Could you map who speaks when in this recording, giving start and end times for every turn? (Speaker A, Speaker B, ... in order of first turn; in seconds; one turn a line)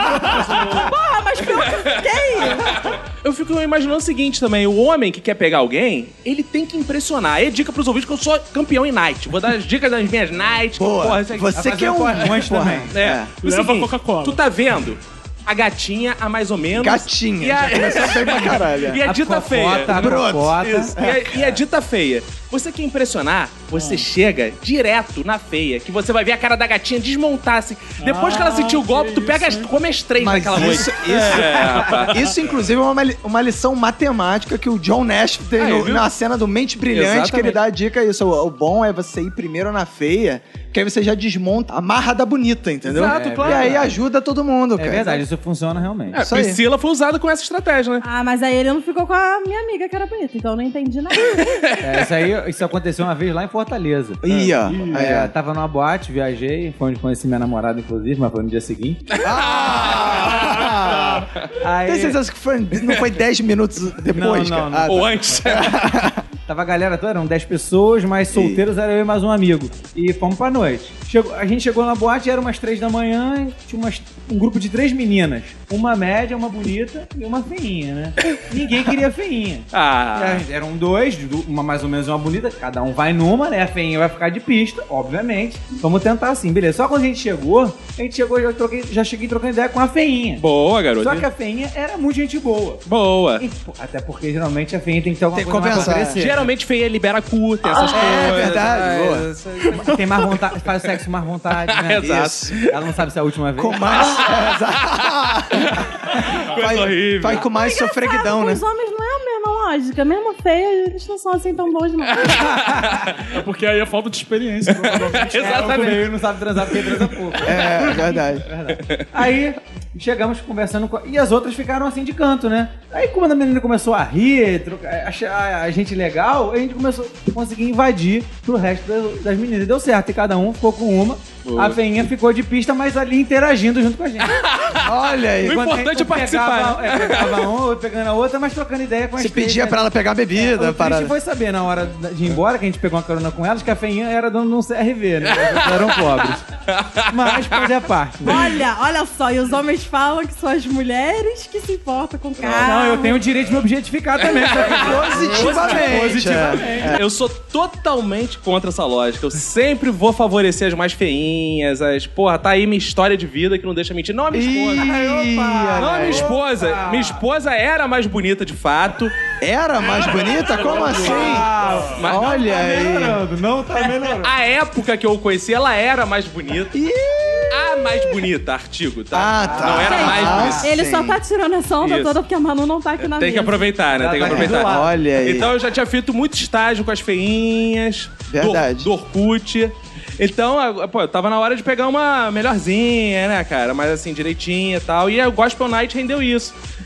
Speaker A: 0.6-2.8
Speaker B: 1.5-11.6
Speaker C: 10.8-13.3
Speaker D: 11.5-12.9
Speaker B: 12.9-32.1
Speaker E: 13.4-14.4
Speaker C: 16.7-19.0
Speaker D: 19.0-21.0
Speaker C: 19.9-21.6
Speaker E: 23.7-24.1
Speaker E: 28.0-29.7
Speaker C: 30.2-45.2
Speaker E: 31.8-32.1
Speaker B: 35.5-36.1
Speaker B: 36.9-37.6
Speaker B: 42.8-43.9
Speaker D: 42.9-44.0
Speaker D: 44.8-46.2
Speaker B: 46.1-48.0
Speaker C: 46.2-46.6
Speaker A: 48.0-51.4
Speaker B: 51.4-51.9
Speaker D: 51.8-54.2
Speaker C: 54.2-55.3
Speaker B: 54.3-54.6
Speaker E: 54.7-55.0
Speaker D: 54.7-59.0
Speaker B: 59.1-60.6
Speaker C: 59.2-61.3
Speaker E: 60.4-61.2
Speaker D: 61.6-62.2
Speaker C: 61.9-66.2
Speaker D: 64.0-65.7
Speaker B: 64.9-65.8
Speaker D: 66.5-90.5
Speaker C: 68.3-68.6
Speaker B: 79.7-80.4
Speaker B: 90.4-91.3
Speaker D: 91.0-92.8
Speaker B: 92.9-93.4
Speaker D: 93.4-96.5
Speaker C: 95.3-96.2
Speaker B: 95.7-99.8
Speaker C: 97.8-99.3
Speaker D: 97.8-98.9
Speaker D: 99.6-104.2
Speaker B: 101.7-102.8
Speaker C: 102.0-102.5
Speaker C: 103.6-108.6
Speaker B: 104.0-104.5
Speaker B: 105.6-107.5
Speaker A: 107.4-112.5
Speaker D: 112.2-113.2
Speaker B: 112.3-113.2
Speaker E: 113.3-116.1
Speaker B: 114.8-116.1
Speaker D: 115.3-134.4
Speaker C: 117.4-118.5
Speaker B: 131.4-131.8
Speaker B: 134.2-137.5
Speaker C: 134.8-135.7
Speaker D: 135.4-146.4
Speaker C: 139.2-141.1
Speaker B: 145.3-146.0
Speaker B: 146.7-147.6
Speaker D: 147.1-148.6
Speaker A: 148.2-153.2
Speaker B: 152.4-152.8
Speaker D: 152.6-157.0
Speaker B: 154.2-164.9
Speaker C: 154.7-157.0
Speaker C: 164.3-166.3
Speaker D: 164.7-167.2
Speaker B: 165.8-169.2
Speaker C: 169.4-171.5
Speaker D: 170.5-174.3
Speaker E: 170.6-171.9
Speaker B: 171.9-172.3
Speaker C: 172.0-173.2
Speaker B: 174.1-176.8
Speaker C: 176.7-178.2
Speaker B: 177.5-180.7
Speaker C: 179.1-181.2
Speaker D: 179.4-180.7
Speaker A: 179.8-183.7
Speaker B: 181.8-182.2
Speaker B: 183.0-196.6
Speaker D: 183.9-185.2
Speaker C: 184.2-185.5
Speaker C: 188.3-188.9